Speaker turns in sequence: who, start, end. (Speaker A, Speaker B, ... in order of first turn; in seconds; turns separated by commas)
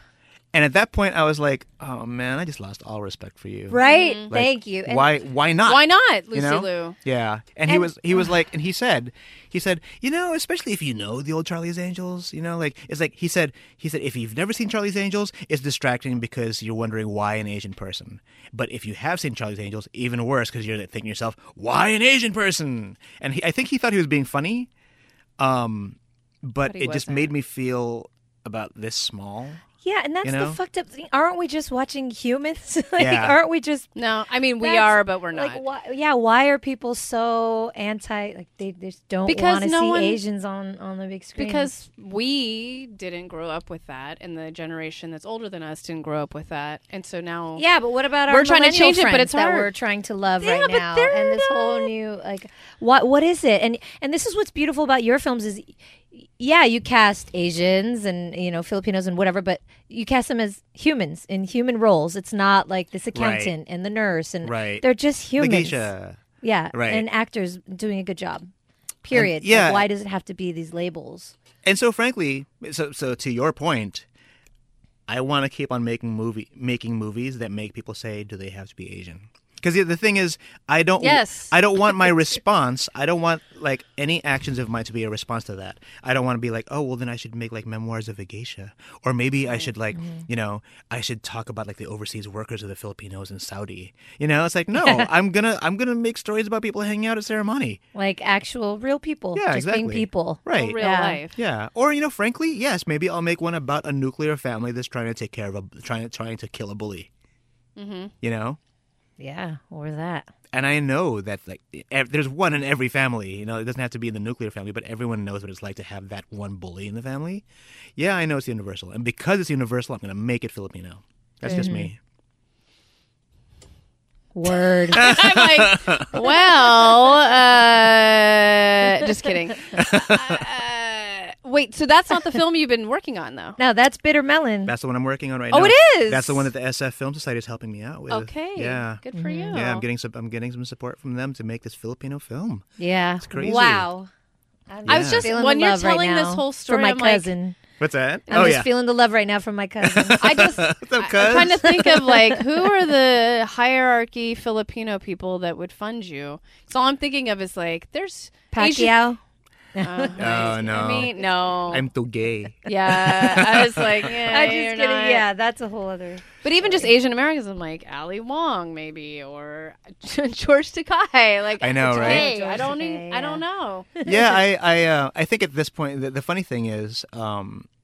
Speaker A: 0.5-24.7, Speaker B: 3.7-5.1, Speaker C: 3.8-4.3, Speaker C: 5.7-7.0, Speaker B: 7.7-7.9, Speaker A: 25.4-29.6, Speaker C: 26.6-27.3, Speaker B: 29.8-33.9, Speaker A: 30.2-30.6, Speaker A: 33.0-33.4, Speaker C: 34.0-35.6, Speaker B: 34.6-41.7, Speaker C: 39.2-40.2, Speaker C: 41.4-47.6, Speaker B: 47.5-65.9, Speaker C: 48.3-49.7, Speaker C: 50.4-51.9, Speaker A: 63.1-63.5, Speaker A: 64.4-64.8, Speaker A: 65.3-66.2, Speaker B: 66.4-68.5, Speaker A: 66.7-67.0, Speaker B: 69.0-71.3, Speaker A: 69.1-69.9, Speaker A: 71.6-74.0, Speaker A: 75.1-97.8, Speaker C: 81.0-81.5, Speaker B: 90.0-90.2, Speaker B: 94.7-95.1, Speaker B: 97.9-101.2, Speaker A: 99.3-100.8, Speaker C: 100.5-101.3, Speaker A: 101.3-107.1, Speaker C: 107.8-108.1, Speaker A: 108.2-108.6, Speaker B: 109.2-110.3, Speaker A: 110.5-117.4, Speaker A: 118.0-122.0, Speaker B: 121.4-121.9, Speaker C: 121.5-121.8, Speaker B: 124.3-125.2, Speaker A: 124.9-126.1, Speaker C: 124.9-133.6, Speaker A: 129.7-130.4, Speaker B: 133.6-134.7, Speaker A: 134.7-142.7, Speaker C: 135.5-136.5, Speaker C: 138.1-139.8, Speaker B: 139.1-139.6, Speaker B: 142.8-144.1, Speaker A: 143.2-143.9, Speaker B: 144.7-147.6, Speaker A: 144.8-145.3, Speaker C: 144.9-147.3, Speaker A: 147.8-148.7, Speaker B: 148.3-150.5, Speaker A: 149.8-152.2, Speaker C: 150.2-159.0, Speaker B: 151.8-152.2, Speaker B: 158.5-159.2, Speaker B: 159.7-160.6, Speaker C: 159.8-161.8, Speaker A: 160.2-161.2, Speaker A: 161.7-164.1, Speaker C: 162.7-165.2, Speaker B: 164.2-166.9, Speaker C: 166.4-173.9, Speaker A: 171.6-172.3, Speaker B: 171.8-173.4, Speaker B: 173.9-174.2, Speaker A: 174.0-177.7